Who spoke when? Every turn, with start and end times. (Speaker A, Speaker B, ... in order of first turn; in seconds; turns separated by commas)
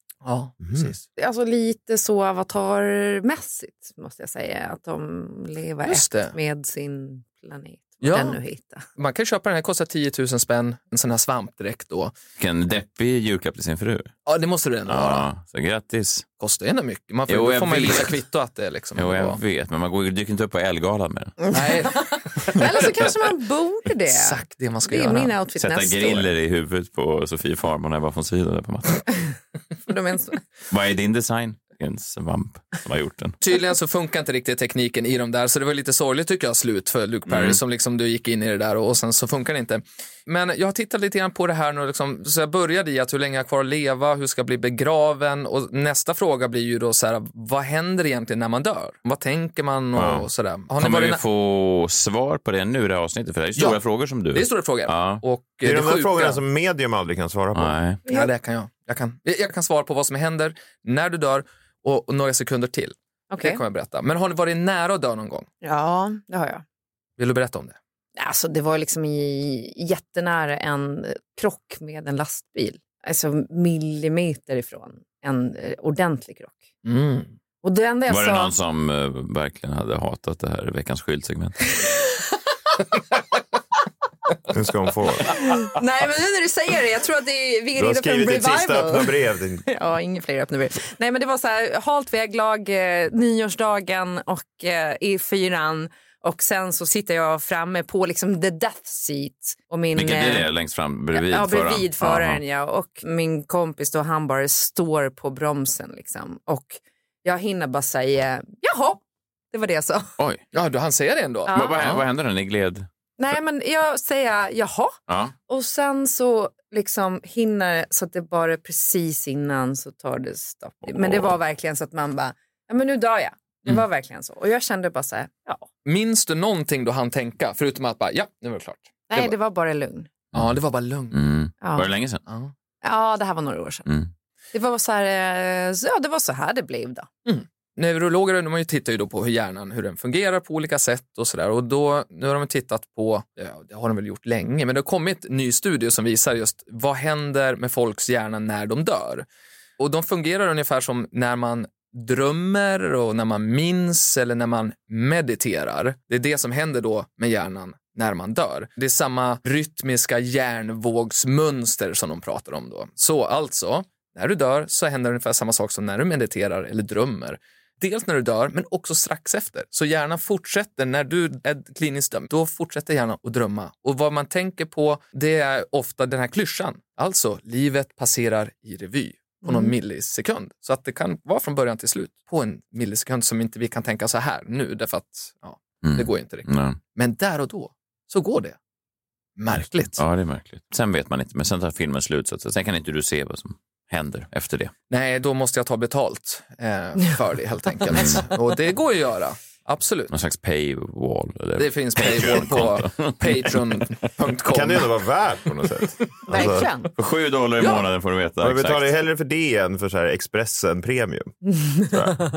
Speaker A: 0.2-1.0, Speaker B: 0.6-0.9, Speaker C: 1.2-8.9, Speaker A: 5.9-6.3, Speaker A: 8.0-8.4, Speaker A: 9.0-12.1, Speaker D: 12.4-14.1, Speaker A: 14.3-15.3, Speaker D: 14.9-16.2, Speaker A: 16.4-19.4, Speaker D: 17.3-18.2, Speaker D: 19.0-21.4, Speaker C: 21.4-26.3, Speaker A: 21.5-23.1, Speaker A: 24.1-25.3, Speaker D: 25.6-29.1, Speaker C: 29.9-30.4, Speaker D: 30.7-33.4, Speaker A: 33.4-51.2, Speaker D: 37.3-37.6, Speaker D: 50.0-55.2, Speaker A: 54.3-56.4, Speaker B: 55.6-57.8, Speaker D: 57.5-58.0, Speaker A: 58.1-65.5, Speaker C: 63.3-63.6, Speaker C: 65.6-66.6, Speaker A: 67.2-67.8, Speaker C: 68.2-76.6, Speaker A: 76.8-77.3, Speaker C: 77.6-78.5, Speaker D: 78.1-81.7, Speaker B: 84.5-85.4, Speaker C: 85.3-89.1, Speaker B: 87.8-89.6, Speaker C: 89.6-100.5, Speaker D: 99.9-102.4, Speaker C: 101.1-109.0, Speaker C: 109.5-110.1, Speaker A: 110.5-112.0, Speaker C: 111.5-111.8, Speaker D: 111.5-112.9, Speaker C: 113.2-115.0, Speaker D: 115.1-115.3, Speaker C: 115.5-125.6, Speaker D: 120.9-121.3, Speaker A: 125.8-129.3, Speaker C: 129.1-130.1, Speaker A: 130.3-131.2, Speaker D: 131.1-132.2, Speaker C: 131.6-131.9, Speaker A: 132.3-132.5, Speaker C: 132.8-133.9, Speaker C: 134.5-137.1, Speaker A: 137.3-149.3, Speaker A: 149.8-188.6, Speaker C: 179.4-179.7, Speaker D: 185.8-186.8, Speaker A: 189.4-190.0, Speaker D: 189.5-194.7, Speaker A: 194.9-200.1, Speaker D: 197.9-198.2, Speaker D: 200.1-204.0, Speaker A: 201.6-204.9, Speaker B: 204.5-206.7, Speaker C: 206.3-206.9, Speaker D: 207.0-209.0, Speaker B: 208.4-211.3, Speaker C: 211.6-212.0, Speaker B: 211.9-212.2